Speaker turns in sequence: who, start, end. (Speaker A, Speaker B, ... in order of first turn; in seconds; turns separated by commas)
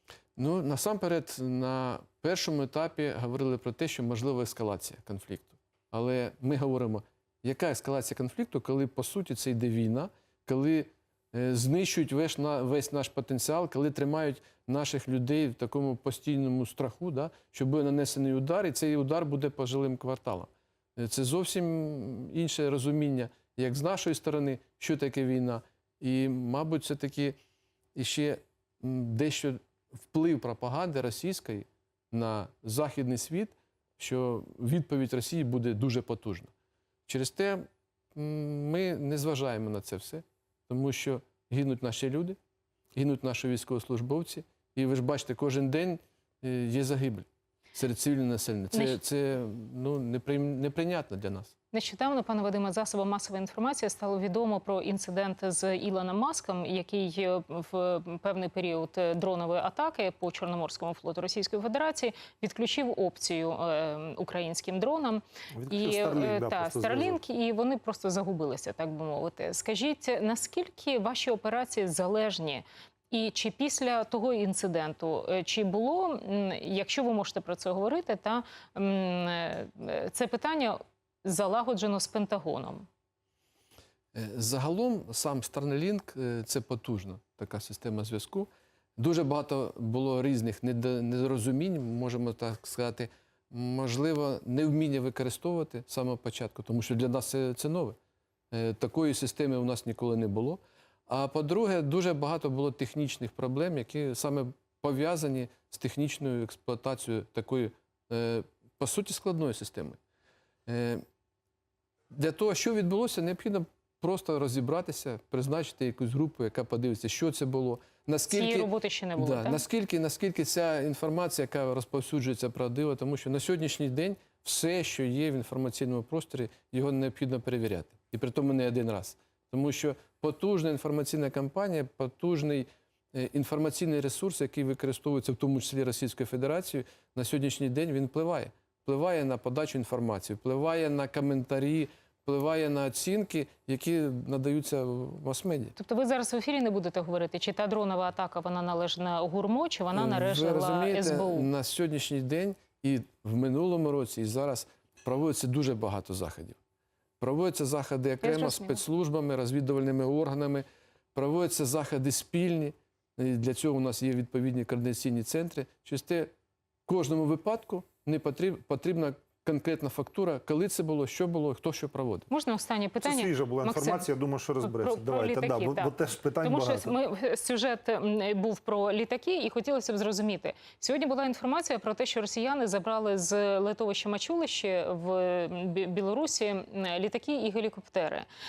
Speaker A: 0.4-27.4, Speaker A: 27.9-36.5, Speaker A: 37.1-42.4, Speaker A: 43.0-51.5, Speaker B: 48.7-49.0, Speaker B: 51.7-82.9, Speaker C: 65.5-67.2, Speaker A: 84.1-98.0, Speaker A: 98.5-110.0, Speaker A: 110.7-111.0, Speaker A: 112.1-145.8, Speaker B: 118.3-119.6, Speaker B: 145.8-151.5, Speaker A: 149.9-156.6, Speaker A: 157.2-166.3, Speaker B: 158.2-158.8, Speaker A: 166.9-172.3, Speaker B: 172.3-174.1, Speaker C: 173.0-176.9, Speaker B: 174.6-188.3